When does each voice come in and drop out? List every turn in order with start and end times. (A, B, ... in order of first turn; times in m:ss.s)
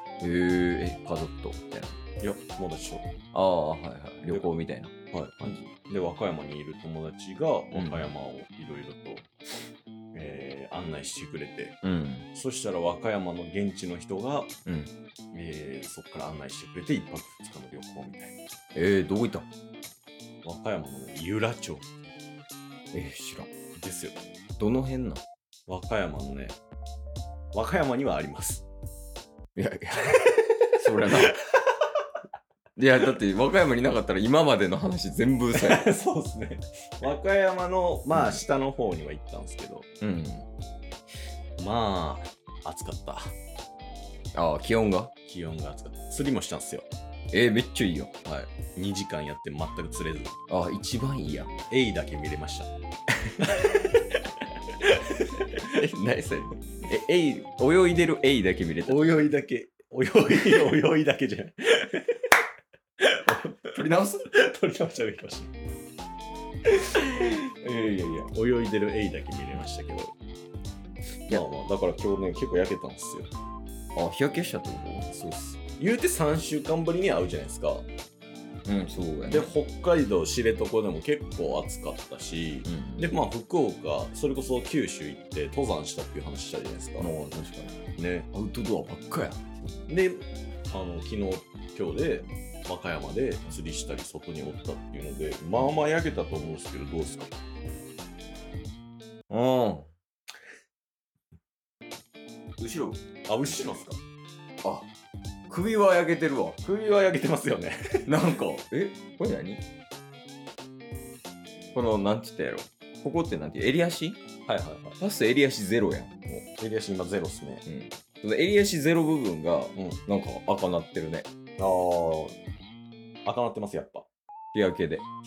0:00.2-0:02.0 A
0:02.2-0:03.1 B
0:03.3-0:05.7 A
0:05.1-0:09.3 B
0:07.7-0:08.1 A
0:10.1-0:11.8 B
0:11.8-0:12.3 A
0:12.3-0:14.5 B
0:14.7-0:14.9 A
0:15.3-0:18.4 B
0:18.8-0:19.5 A
0:20.4-0:22.0 B
0:22.9-0:23.5 A
0:23.8-0:24.3 B
0:24.6-0:25.2 A
0:25.7-0:26.6 B
0:27.5-0:28.6 B
0:29.6-0:31.4 A
0:32.8-0:35.9 A
0:35.5-0:39.9 B
0:38.1-0:38.4 A
0:40.0-0:40.5 A
0:41.6-0:43.4 B
0:44.4-0:45.1 A
0:45.2-0:46.9 B
0:47.3-0:48.1 A
0:48.2-0:50.4 B
0:50.5-0:51.5 A
0:51.7-0:52.7 B
0:53.3-0:54.0 A
0:53.4-0:53.7 B
0:54.8-0:59.1 A
0:58.9-1:02.2 B
1:03.0-1:05.5 B
1:03.6-1:04.3 A
1:06.7-1:08.3 A
1:08.3-1:10.1 B
1:11.3-1:13.3 B
1:14.0-1:15.1 A
1:15.1-1:17.8 B
1:18.7-1:19.5 A
1:19.3-1:27.1 B
1:22.6-1:23.1 A
1:27.0-1:27.8 A
1:28.0-1:28.3 B
1:28.3-1:29.5 A
1:29.9-1:37.4 B
1:39.3-1:39.9 A
1:42.6-1:43.0 A
1:43.3-1:44.0 B
1:44.6-1:44.9 A
1:45.5-1:46.6 A
1:46.6-1:48.1 B
1:48.1-1:49.6 A
1:51.7-1:54.2 A
1:54.5-1:55.0 B
1:55.0-1:56.4 A
1:56.6-1:57.6 B
1:57.7-2:01.3 A
2:01.6-2:02.4 B
2:03.2-2:04.1 B
2:04.5-2:05.0 A